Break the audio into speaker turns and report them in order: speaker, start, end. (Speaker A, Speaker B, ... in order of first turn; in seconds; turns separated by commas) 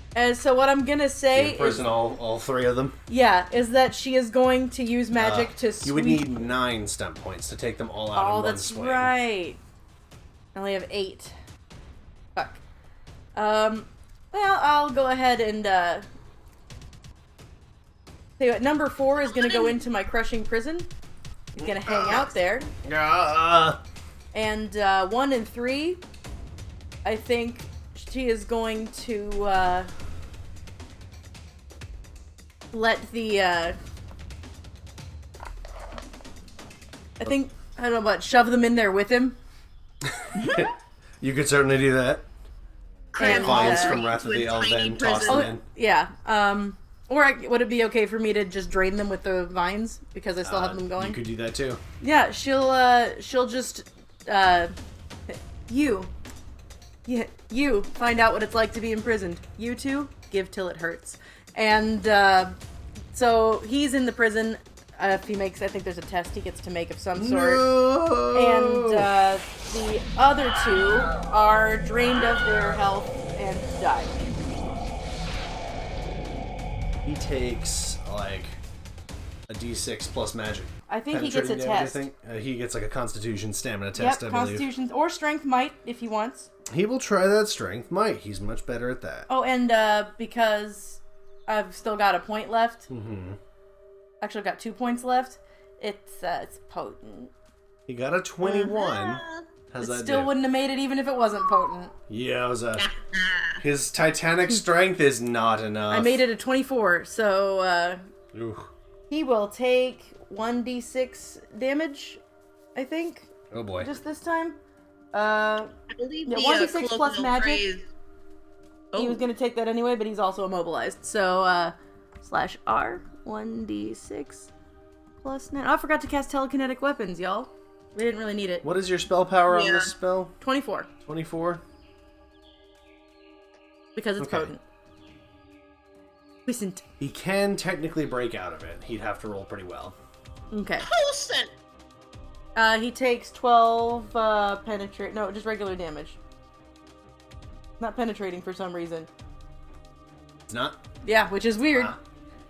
Speaker A: 0.1-1.9, Speaker B: 1.3-3.0, Speaker A: 3.1-6.3, Speaker B: 5.1-9.1, Speaker A: 8.1-9.6, Speaker A: 10.5-11.3, Speaker A: 12.3-12.6, Speaker A: 13.3-16.0, Speaker A: 18.4-20.9, Speaker C: 19.2-19.8, Speaker A: 21.5-22.7, Speaker B: 21.6-22.3, Speaker B: 22.8-23.8, Speaker A: 24.3-26.0, Speaker A: 27.0-29.9, Speaker A: 32.7-33.8, Speaker A: 37.2-39.4, Speaker B: 40.0-42.2, Speaker C: 40.3-40.7, Speaker C: 43.1-45.5, Speaker A: 43.1-44.0, Speaker B: 43.2-45.6, Speaker A: 45.2-51.2, Speaker B: 50.4-51.8, Speaker A: 52.0-54.7, Speaker A: 55.3-56.1, Speaker A: 57.0-62.6, Speaker A: 63.1-67.7, Speaker B: 67.2-69.1, Speaker A: 68.3-74.1, Speaker B: 77.0-78.6, Speaker B: 79.5-84.7, Speaker A: 80.9-82.0, Speaker A: 83.9-86.5, Speaker B: 86.7-89.3, Speaker A: 89.3-92.9, Speaker B: 92.9-93.4, Speaker A: 94.2-97.3, Speaker B: 97.9-100.3, Speaker C: 98.4-99.4, Speaker A: 99.8-101.9, Speaker B: 102.1-102.9, Speaker C: 102.8-103.6, Speaker B: 103.6-106.2, Speaker A: 105.9-108.0, Speaker B: 108.3-108.7, Speaker A: 109.1-112.2, Speaker A: 112.7-114.6, Speaker B: 113.5-113.9, Speaker A: 115.1-115.7, Speaker C: 115.9-117.8, Speaker A: 116.3-117.6, Speaker C: 118.9-119.2, Speaker A: 118.9-124.5, Speaker A: 125.2-128.7, Speaker B: 128.6-130.3, Speaker C: 129.5-129.9, Speaker A: 130.4-130.9, Speaker B: 131.1-131.6, Speaker A: 133.9-134.6, Speaker B: 134.2-134.5, Speaker A: 136.4-136.8, Speaker B: 137.0-139.9, Speaker A: 140.5-140.9, Speaker C: 140.8-141.5, Speaker A: 142.5-146.2, Speaker A: 147.8-149.1, Speaker B: 150.5-150.8, Speaker A: 151.0-151.9, Speaker B: 151.7-152.0